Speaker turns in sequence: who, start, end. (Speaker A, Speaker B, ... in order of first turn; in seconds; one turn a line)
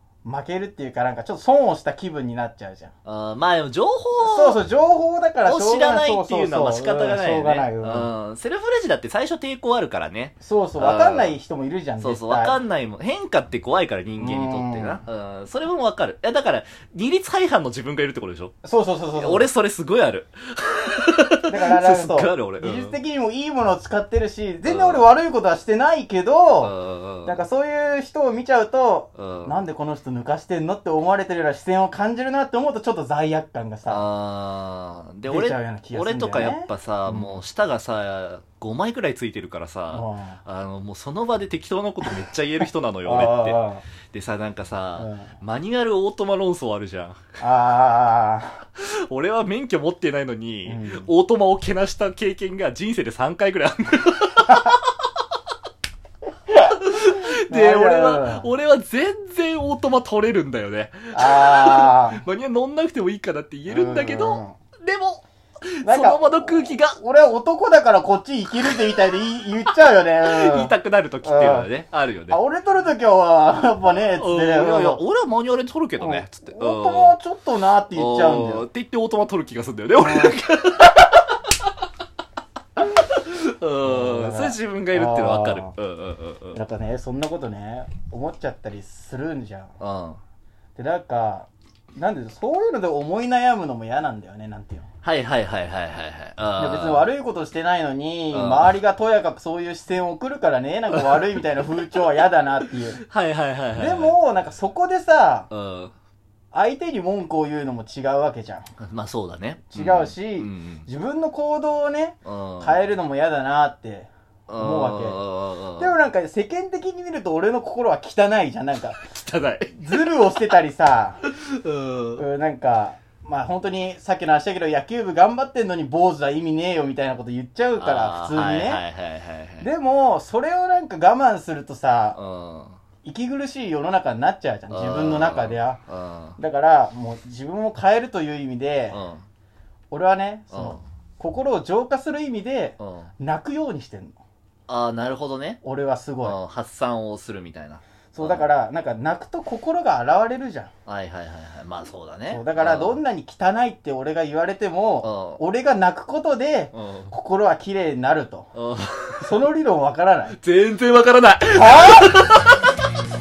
Speaker A: 0.2-2.9
Speaker B: 3.0-4.6
Speaker A: 4.2-8.1
Speaker B: 5.4-11.4
Speaker A: 10.4-12.6
Speaker B: 12.0-18.6
Speaker A: 14.2-15.0
Speaker A: 18.6-19.5
Speaker B: 19.2-23.0
Speaker A: 21.5-26.7
Speaker B: 24.6-25.1
Speaker B: 26.6-27.4
Speaker A: 27.2-34.0
Speaker B: 29.2-29.6
Speaker B: 33.9-43.6
Speaker A: 35.3-37.4
Speaker A: 39.9-40.4
Speaker A: 43.0-43.9
Speaker B: 44.1-47.2
Speaker A: 45.0-45.3
Speaker A: 47.4-48.6
Speaker B: 48.8-54.8
Speaker A: 50.7-51.1
Speaker B: 56.6-67.0
Speaker A: 57.5-58.5
Speaker A: 61.1-62.2
Speaker A: 63.7-64.6
Speaker A: 65.8-71.7
Speaker B: 70.2-72.4
Speaker A: 72.3-75.0
Speaker B: 74.2-77.2
Speaker A: 76.0-78.7
Speaker B: 77.9-81.4
Speaker A: 80.0-80.4
Speaker B: 83.0-86.6
Speaker A: 83.8-85.7
Speaker A: 86.5-89.8
Speaker B: 89.8-90.2
Speaker A: 90.8-94.9
Speaker B: 95.0-97.1
Speaker A: 96.6-103.0
Speaker B: 98.3-98.7
Speaker B: 100.9-101.2
Speaker B: 103.0-104.2
Speaker A: 103.8-105.5
Speaker B: 105.5-105.9
Speaker A: 106.5-108.7
Speaker B: 108.8-110.9
Speaker A: 109.7-115.2
Speaker B: 112.3-112.8
Speaker B: 114.5-116.0
Speaker A: 115.8-119.0
Speaker B: 119.2-120.0
Speaker A: 119.7-121.2
Speaker B: 121.3-122.2
Speaker A: 122.2-128.8
Speaker B: 127.8-129.7
Speaker A: 129.6-132.2
Speaker B: 132.1-132.8
Speaker A: 133.0-135.8
Speaker B: 134.7-136.4
Speaker A: 136.4-139.0
Speaker B: 138.9-139.2
Speaker A: 139.9-144.2
Speaker B: 140.5-140.8
Speaker B: 142.8-143.1
Speaker B: 144.7-145.6
Speaker A: 145.6-146.4
Speaker B: 146.2-148.5
Speaker A: 148.1-150.7
Speaker B: 150.9-153.0
Speaker A: 152.3-158.5
Speaker B: 155.0-155.4
Speaker B: 156.7-157.1
Speaker B: 158.5-159.2
Speaker A: 159.2-160.4
Speaker B: 160.3-162.8
Speaker A: 161.5-162.2